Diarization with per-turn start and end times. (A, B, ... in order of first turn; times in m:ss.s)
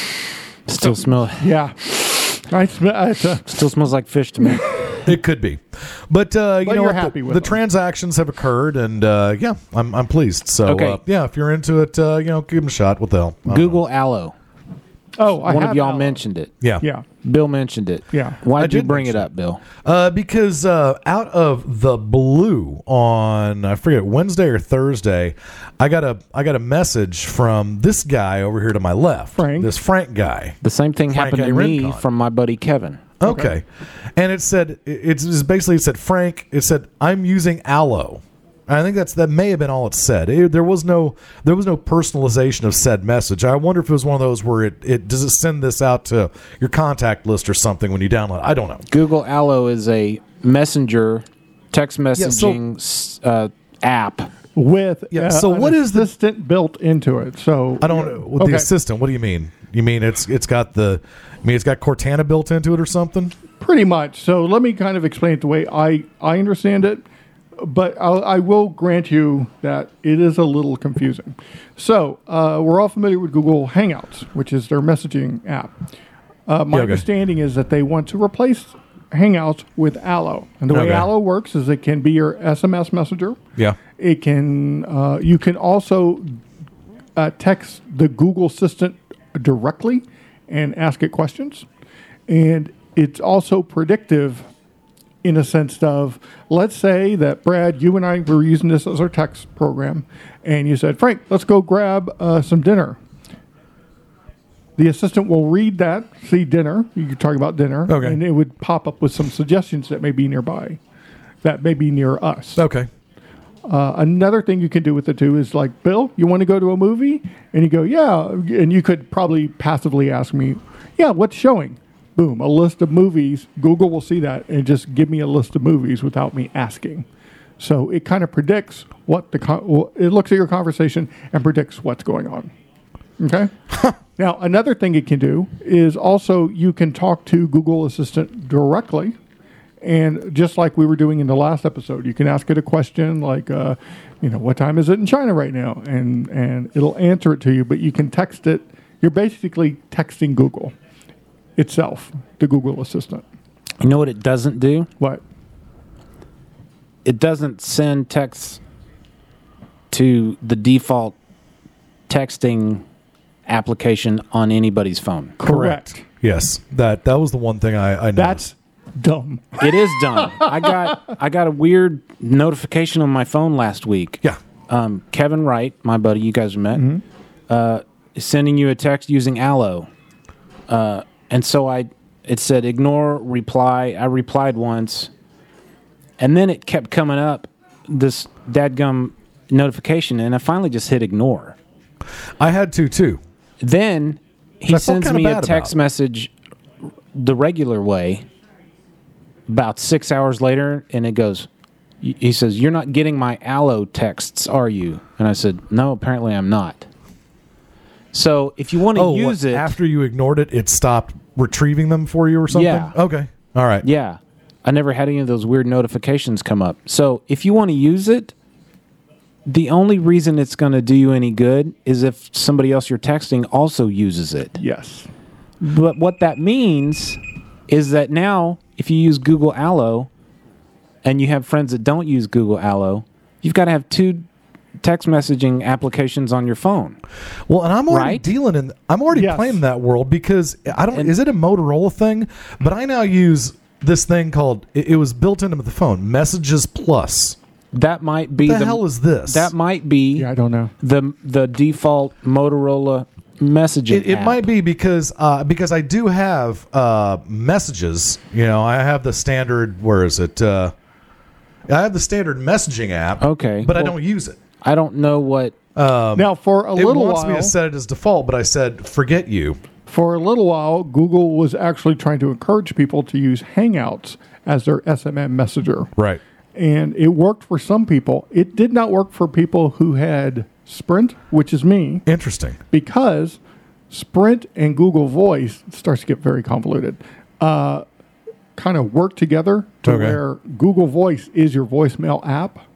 0:00.7-0:01.5 A
0:01.4-0:03.6 B
0:03.5-0:04.8 A
0:05.0-0:13.8 C
0:06.6-0:07.6 B
0:10.6-0:11.0 A
0:13.5-0:14.4 A
0:15.2-0:16.2 B
0:15.4-0:16.5 A
0:17.2-0:19.6 A
0:18.1-0:18.4 B
0:18.6-0:30.6 C
0:29.4-0:29.7 B
0:30.6-0:33.0 A
0:31.1-0:32.0 C
0:33.2-0:48.8 C
0:33.2-0:33.5 B
0:48.9-0:54.3 A
0:52.2-0:52.6 C
0:54.6-0:58.7 B
0:55.1-0:56.1 C
0:57.8-1:03.3 C
1:03.6-1:07.0 B
1:07.6-1:15.7 B
1:16.5-1:23.4 B
1:16.7-1:17.1 C
1:20.7-1:21.1 C
1:24.0-1:26.4 B
1:27.2-1:31.6 B
1:32.3-1:34.5 B
1:35.2-1:43.0 B
1:44.8-1:50.8 B
1:47.9-1:48.2 C
1:51.4-1:52.6 B
1:52.6-1:52.9 C
1:53.7-2:07.1 B
2:07.6-2:12.5 B
2:13.2-2:13.5 B
2:14.2-2:19.2 B
2:19.8-2:30.7 B
2:31.6-2:33.2 B
2:33.8-2:34.9 A
2:37.0-2:38.6 A
2:39.9-2:41.2 A
2:42.1-2:42.8 A
2:43.5-2:45.4 A
2:45.4-2:46.0 B
2:45.4-2:48.5 C
2:48.2-2:50.9 B
2:49.6-2:56.9 A
2:56.8-2:57.0 B
2:57.5-2:59.9 A
3:00.7-3:05.1 A
3:06.2-3:11.6 A
3:12.4-3:13.2 C
3:13.6-3:16.3 A
3:14.7-3:15.8 C
3:17.1-3:18.3 A
3:19.5-3:21.5 A
3:22.0-3:26.9 A
3:28.1-3:29.7 A
3:28.9-3:33.9 C
3:32.5-3:33.0 A
3:33.8-3:38.3 A
3:39.5-3:44.6 A
3:44.6-3:45.1 B
3:45.6-3:50.1 A
3:51.0-3:54.3 A
3:54.8-3:57.0 A
3:57.5-4:07.4 C
3:57.9-3:58.3 A
3:59.1-3:59.6 B
4:07.7-4:10.3 A
4:08.4-4:09.5 C
4:10.2-4:10.7 B
4:10.8-4:14.5 A
4:13.9-4:20.7 C
4:21.7-4:24.4 C
4:23.2-4:24.0 A
4:24.6-4:25.6 A
4:25.8-4:29.6 C
4:26.2-4:27.5 B
4:29.9-4:35.9 B
4:36.6-4:42.0 B
4:42.1-4:42.6 C
4:42.7-4:43.4 B
4:43.9-4:47.8 B
4:48.6-4:52.6 B
4:49.8-4:50.2 C